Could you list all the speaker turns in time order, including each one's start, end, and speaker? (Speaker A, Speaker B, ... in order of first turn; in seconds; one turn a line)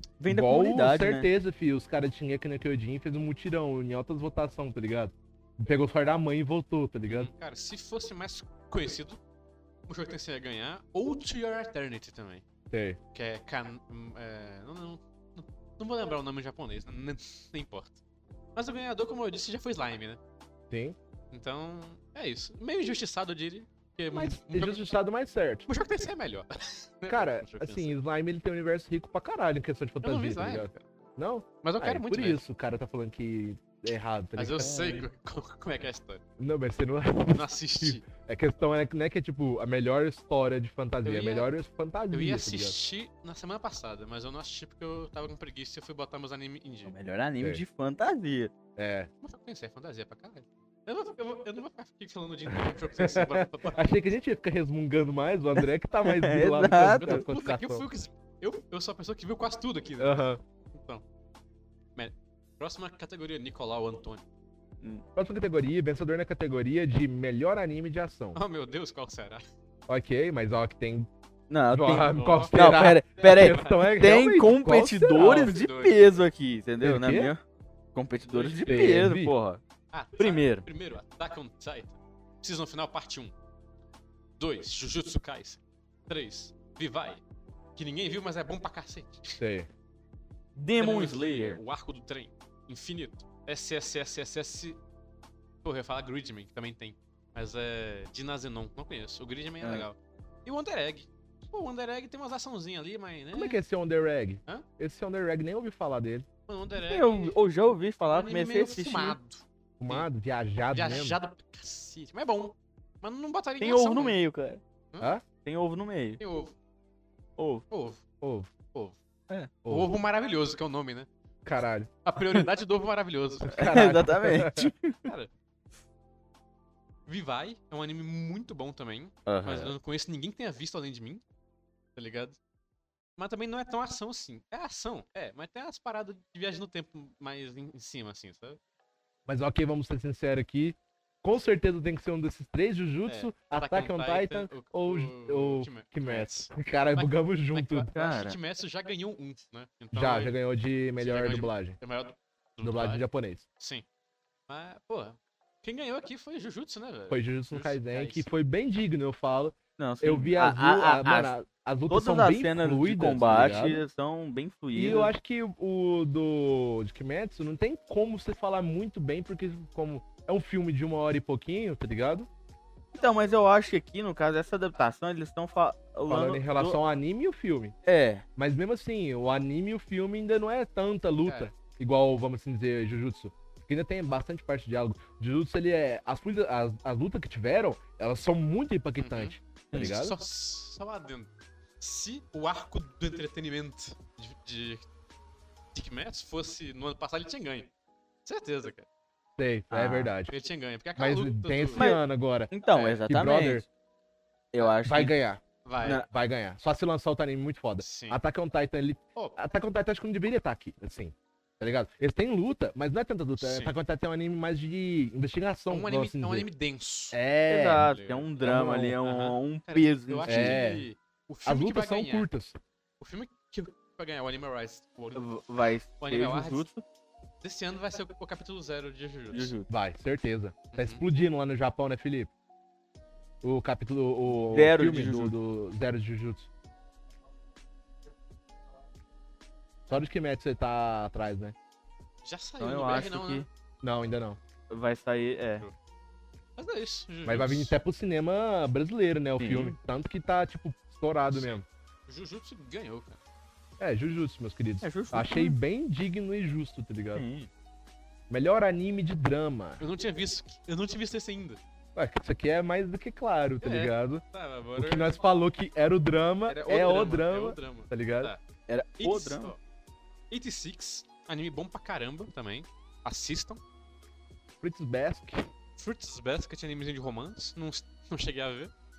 Speaker A: 0.2-1.3
Speaker B: 0.3-7.3
Speaker C: 7.1-9.2
Speaker C: 9.9-12.4
Speaker B: 12.7-13.0
Speaker C: 13.1-18.0
Speaker C: 18.6-20.2
Speaker B: 20.7-21.0
Speaker C: 21.3-24.9
Speaker B: 24.1-25.7
Speaker C: 25.7-27.9
Speaker B: 27.1-35.0
Speaker C: 30.0-30.8
Speaker C: 31.6-32.4
Speaker C: 34.4-36.2
Speaker B: 36.4-42.8
Speaker C: 37.3-38.1
Speaker C: 41.0-41.5
Speaker C: 42.1-46.9
Speaker A: 46.9-48.5
Speaker B: 48.8-49.1
Speaker C: 49.2-53.9
Speaker B: 52.5-57.9
Speaker A: 56.0-57.2
Speaker C: 56.8-61.0
Speaker B: 60.0-60.4
Speaker C: 62.0-64.2
Speaker B: 65.2-68.4
Speaker C: 68.3-69.4
Speaker B: 69.9-71.1
Speaker A: 71.5-77.4
Speaker B: 71.7-75.6
Speaker C: 71.9-72.5
Speaker C: 73.2-73.9
Speaker C: 75.2-76.2
Speaker B: 76.8-77.3
Speaker A: 78.0-79.6
Speaker C: 78.3-78.8
Speaker B: 78.7-79.3
Speaker C: 79.9-83.3
Speaker A: 80.2-80.7
Speaker C: 84.4-87.2
Speaker C: 87.8-89.4
Speaker B: 89.4-89.7
Speaker A: 90.6-91.6
Speaker C: 90.8-94.8
Speaker C: 95.6-103.6
Speaker B: 103.3-106.3
Speaker C: 106.5-107.3
Speaker A: 106.9-109.2
Speaker C: 108.1-110.1
Speaker B: 109.8-111.2
Speaker C: 110.7-114.2
Speaker A: 113.6-114.6
Speaker B: 115.0-115.2
Speaker A: 115.4-116.2
Speaker C: 116.2-116.5
Speaker A: 117.4-117.7
Speaker C: 117.7-118.0
Speaker B: 118.2-118.5
Speaker B: 119.7-119.9
Speaker C: 119.7-121.1
Speaker B: 121.5-121.9
Speaker C: 122.0-123.8
Speaker B: 123.4-124.7
Speaker A: 123.5-125.1
Speaker C: 125.0-125.3
Speaker C: 127.1-131.2
Speaker A: 129.3-129.7
Speaker C: 132.0-132.4
Speaker C: 133.2-138.6
Speaker B: 139.3-147.9
Speaker C: 143.1-150.4
Speaker A: 147.9-148.4
Speaker B: 149.9-151.8
Speaker C: 151.0-153.1
Speaker B: 152.6-153.4
Speaker C: 153.6-153.8
Speaker C: 154.5-158.3
Speaker B: 157.1-163.8
Speaker A: 159.8-161.3
Speaker A: 161.9-165.1
Speaker B: 164.8-172.3
Speaker A: 173.0-176.8
Speaker B: 176.1-177.8
Speaker A: 177.9-178.2
Speaker B: 178.4-190.2
Speaker C: 181.2-181.5
Speaker C: 189.0-194.9
Speaker C: 195.7-197.7
Speaker C: 198.2-198.9
Speaker B: 199.4-200.3
Speaker A: 199.7-200.1
Speaker C: 200.3-201.9
Speaker B: 201.0-202.5
Speaker A: 201.8-203.7
Speaker C: 202.7-203.0
Speaker B: 203.1-203.7
Speaker A: 204.5-205.1
Speaker B: 204.8-205.4
Speaker C: 205.7-206.0
Speaker A: 205.8-206.1
Speaker B: 206.0-216.5
Speaker C: 207.8-208.2
Speaker C: 213.4-213.7
Speaker C: 215.7-217.2
Speaker B: 217.1-217.9
Speaker A: 217.5-220.6
Speaker C: 217.7-218.4
Speaker B: 218.4-219.0
Speaker C: 219.0-222.3
Speaker B: 220.3-220.9
Speaker B: 221.5-222.6
Speaker C: 223.0-225.2
Speaker A: 225.2-226.8
Speaker C: 226.0-226.7
Speaker C: 227.4-229.5
Speaker A: 229.3-229.7
Speaker B: 229.7-232.3
Speaker C: 230.7-231.0
Speaker B: 233.4-236.5
Speaker A: 234.5-235.3
Speaker B: 239.9-241.6
Speaker C: 242.2-243.5
Speaker A: 242.6-243.5
Speaker B: 243.8-244.4
Speaker A: 244.7-245.7
Speaker C: 246.6-247.8
Speaker B: 247.3-251.6
Speaker A: 249.4-249.8
Speaker C: 251.3-253.2
Speaker B: 253.8-257.3
Speaker A: 254.8-255.6
Speaker A: 257.1-257.5
Speaker B: 258.3-259.8
Speaker C: 259.8-261.6
Speaker B: 261.9-264.2
Speaker C: 263.6-265.2
Speaker B: 264.8-268.3
Speaker C: 266.5-268.4
Speaker A: 268.7-269.5
Speaker C: 269.0-269.6
Speaker C: 270.3-273.6
Speaker B: 274.6-275.5
Speaker C: 275.8-278.7